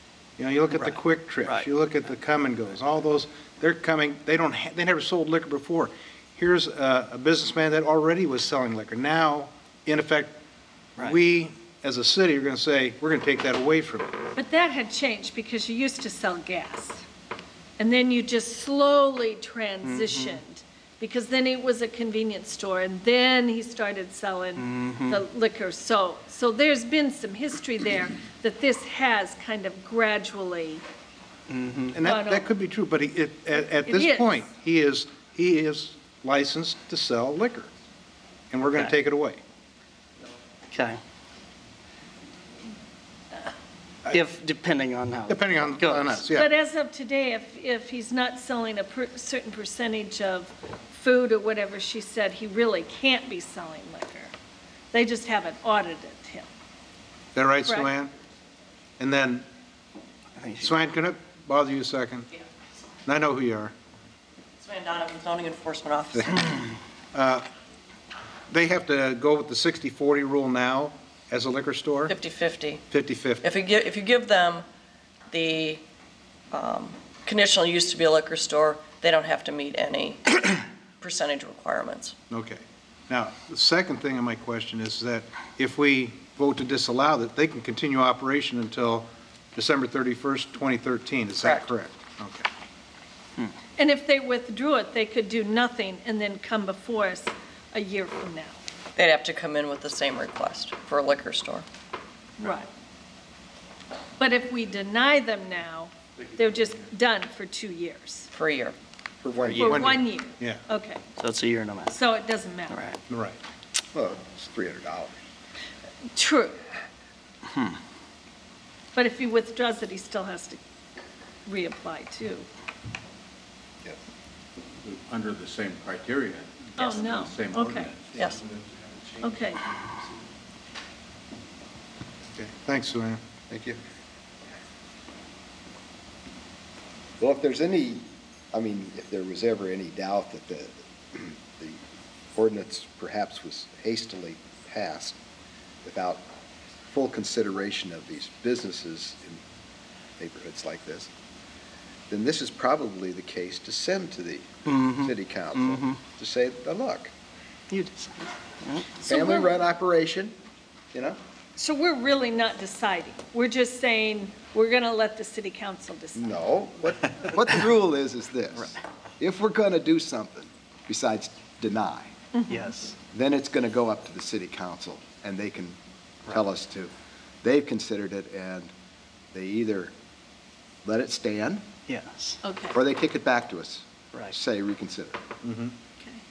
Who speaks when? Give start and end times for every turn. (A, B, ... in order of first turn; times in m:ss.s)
0:00.4-0:10.4 A
0:11.0-0:14.1 A
0:14.4-0:17.0 B
0:17.8-0:30.8 B
0:19.8-0:20.4 C
0:24.6-0:25.2 C
0:31.5-0:32.0 C
0:31.9-0:37.7 A
0:32.0-0:32.5 B
0:33.8-0:34.4 B
0:38.5-0:39.4 A
0:40.7-0:41.0 C
0:44.1-0:46.2 C
0:45.3-0:46.5 A
0:46.3-0:54.3 B
0:54.9-0:56.5 B
0:57.4-0:58.1 A
0:57.6-0:57.9 B
0:59.0-0:59.4 A
1:00.6-1:02.3 A
1:03.1-1:03.7 A
1:04.6-1:06.5 D
1:07.1-1:07.4 A
1:08.5-1:12.2 A
1:12.1-1:12.8 D
1:12.9-1:13.4 A
1:13.4-1:14.6 D
1:15.3-1:15.8 D
1:16.5-1:22.2 D
1:22.3-1:32.5 A
1:31.4-1:31.7 D
1:33.8-1:38.6 B
1:39.0-1:41.6 D
1:42.4-1:42.7 B
1:44.2-1:48.3 B
1:48.3-1:48.8 D
1:49.2-1:50.0 E
1:49.6-1:50.6 A
1:49.6-1:51.1 B
1:51.2-1:52.0 C
1:51.9-1:52.9 B
1:52.7-1:53.0 C
1:53.1-1:53.4 A
1:53.9-1:55.2 E
1:56.2-1:56.6 B
1:57.5-1:57.8 C
1:59.0-2:00.6 B
2:01.5-2:02.5 B
2:04.8-2:08.2 F
2:06.8-2:07.9 B
2:08.2-2:08.4 D
2:09.2-2:09.6 B
2:12.3-2:13.2 A
2:13.5-2:13.8 E
2:17.2-2:21.8 E
2:22.4-2:25.2 E
2:25.8-2:26.3 E
2:26.9-2:29.4 E
2:30.2-2:31.1 E
2:32.1-2:37.1 E
2:34.7-2:35.1 C
2:37.7-2:38.9 C
2:39.0-2:39.5 B
2:39.0-2:40.4 E
2:40.9-2:41.2 E
2:41.6-2:46.3 B
2:46.2-2:52.1 E
2:52.4-2:52.7 B
2:52.5-2:53.0 C
2:53.1-2:56.9 E
2:57.4-2:58.7 E
2:59.3-2:59.9 E
3:00.8-3:01.7 E
3:01.9-3:02.4 C
3:02.7-3:05.2 E
3:05.4-3:05.7 A